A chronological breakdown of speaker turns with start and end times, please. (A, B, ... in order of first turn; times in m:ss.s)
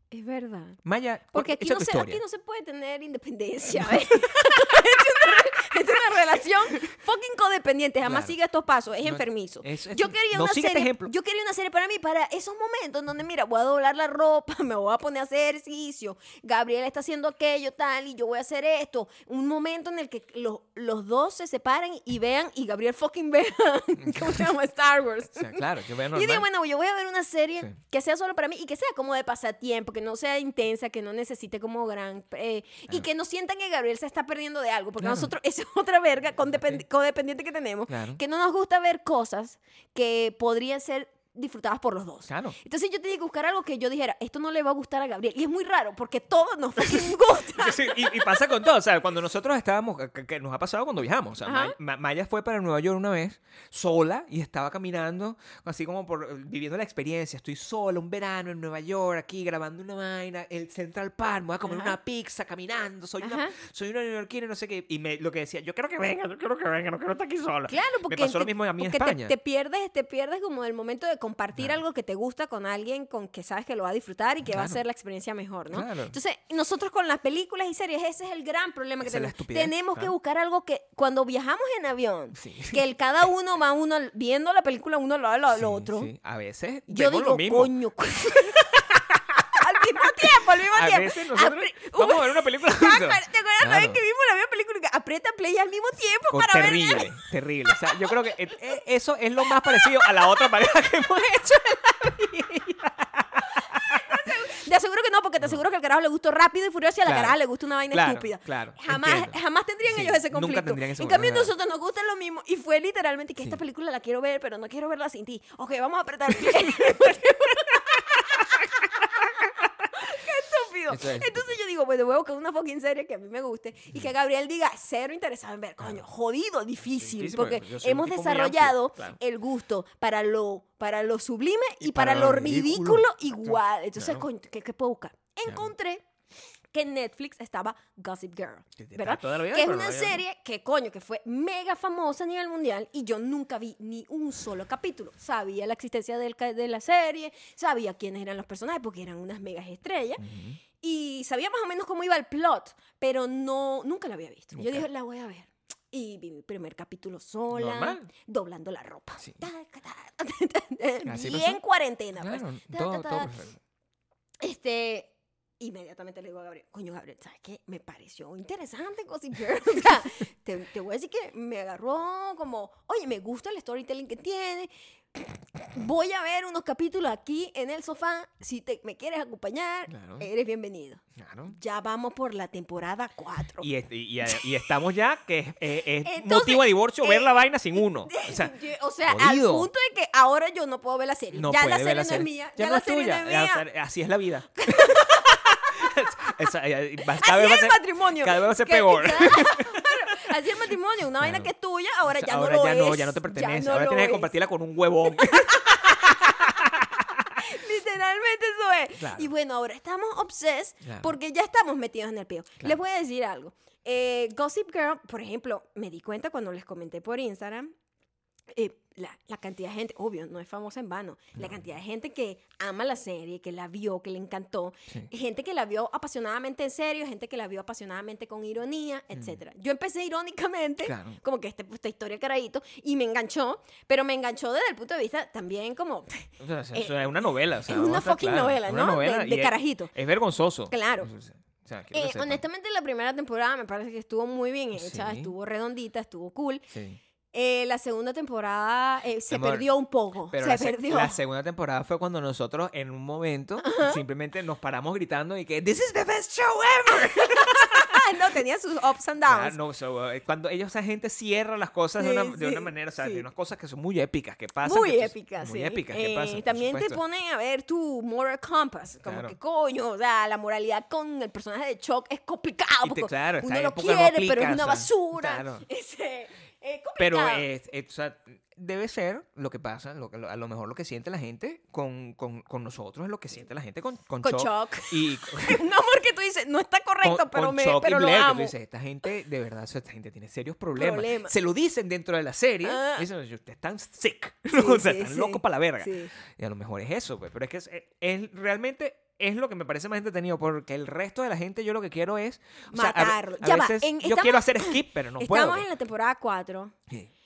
0:00.1-0:00.8 A
0:00.8-0:02.2 B
0:01.3-0:48.2 A
0:03.8-0:04.7 B
0:08.0-0:08.4 B
0:09.0-0:11.1 B
0:24.0-0:24.5 B
0:25.4-0:26.5 B
0:35.0-0:35.3 B
0:36.5-0:36.8 B
0:37.9-0:38.2 B
0:42.3-0:42.6 B
0:46.8-1:09.3 B
0:51.4-0:51.8 A
1:01.7-1:01.9 A
1:03.2-1:03.6 A
1:07.7-1:26.1 A
1:14.5-1:14.8 B
1:15.7-1:16.2 B
1:19.0-1:20.1 B
1:22.4-1:22.8 B
1:25.5-1:34.0 B
1:26.9-1:37.1 A
1:36.3-1:44.3 B
1:37.9-1:38.1 A
1:43.8-1:58.7 A
1:47.0-1:47.4 B
1:47.9-1:51.5 B
2:00.0-2:16.0 A
2:00.9-2:01.5 B
2:07.0-2:09.2 B
2:11.8-2:14.3 B
2:16.7-2:30.2 A
2:18.8-2:20.2 B
2:30.2-2:30.6 B
2:30.8-2:43.3 A
2:34.6-2:34.9 B
2:37.5-2:38.1 B
2:41.1-2:41.6 B
2:42.2-2:43.6 B
2:44.4-3:03.7 A
2:59.9-3:00.3 B
3:01.2-3:01.6 B
3:03.6-3:09.7 B
3:06.0-3:13.6 A
3:11.3-3:20.4 B
3:14.6-3:15.4 A
3:17.2-3:24.3 A
3:21.2-3:21.5 B
3:22.1-3:27.4 B
3:25.2-3:26.4 A
3:27.4-3:37.7 A
3:29.0-3:29.3 B
3:30.8-3:31.1 B
3:38.5-3:57.0 A
3:41.4-3:41.6 B
3:50.8-3:51.2 B
3:56.4-4:02.4 B
3:57.6-3:59.9 A
4:00.7-4:01.1 A
4:01.9-4:06.7 A
4:04.8-4:05.3 B
4:06.7-4:07.0 B
4:07.3-4:11.2 A
4:09.3-4:09.7 B
4:10.3-4:18.0 B
4:13.6-4:14.0 A
4:17.0-4:19.6 A
4:19.2-4:27.0 B
4:22.0-4:23.2 A
4:24.6-4:37.5 A
4:29.0-4:29.4 B
4:32.8-4:35.6 B
4:37.0-4:45.6 B
4:44.2-4:48.6 A
4:47.0-5:05.7 B
4:50.8-4:51.4 A
4:52.6-4:53.1 A
4:54.5-4:56.1 A
5:02.7-5:06.8 A